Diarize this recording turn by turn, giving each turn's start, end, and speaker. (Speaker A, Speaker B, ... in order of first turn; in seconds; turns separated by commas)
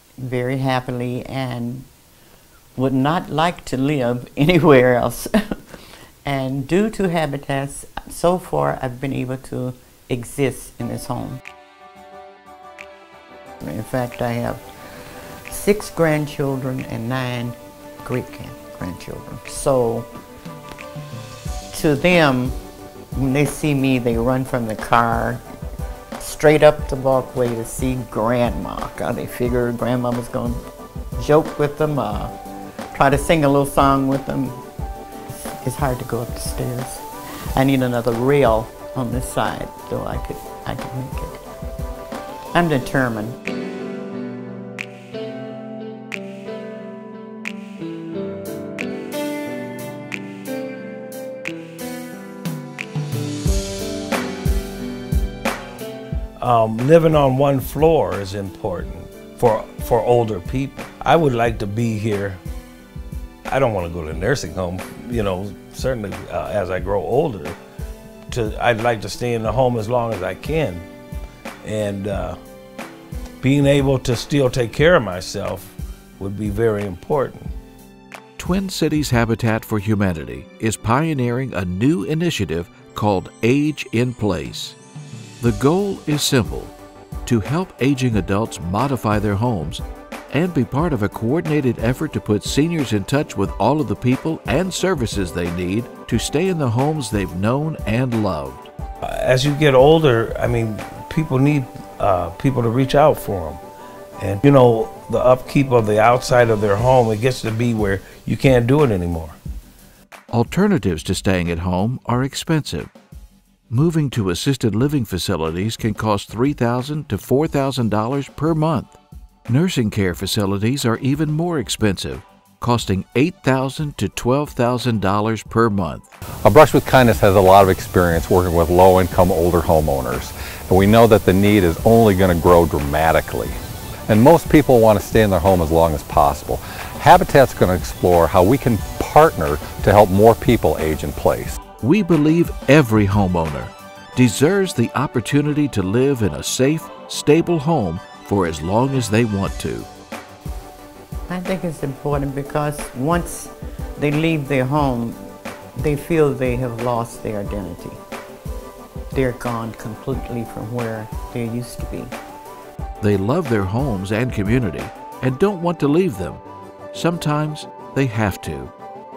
Speaker A: 0.2-1.9, Speaker A: 2.8-5.3, Speaker A: 6.2-11.4, Speaker A: 13.6-14.6, Speaker A: 15.5-20.1, Speaker A: 21.7-22.6, Speaker A: 23.1-25.4, Speaker A: 26.2-30.6, Speaker A: 31.2-32.3, Speaker A: 32.9-34.6, Speaker A: 35.3-41.4, Speaker A: 42.5-43.4, Speaker B: 56.4-62.4, Speaker B: 63.5-67.6, Speaker B: 68.3-70.9, Speaker B: 71.6-72.4, Speaker B: 73.4-77.5, Speaker C: 78.4-84.8, Speaker C: 85.4-98.7, Speaker B: 99.0-103.6, Speaker B: 104.2-109.4, Speaker C: 110.3-112.9, Speaker C: 113.7-119.0, Speaker C: 119.5-126.1, Speaker D: 126.4-133.6, Speaker D: 134.1-141.6, Speaker C: 141.8-149.9, Speaker A: 151.3-158.0, Speaker A: 159.1-162.1, Speaker C: 163.0-168.7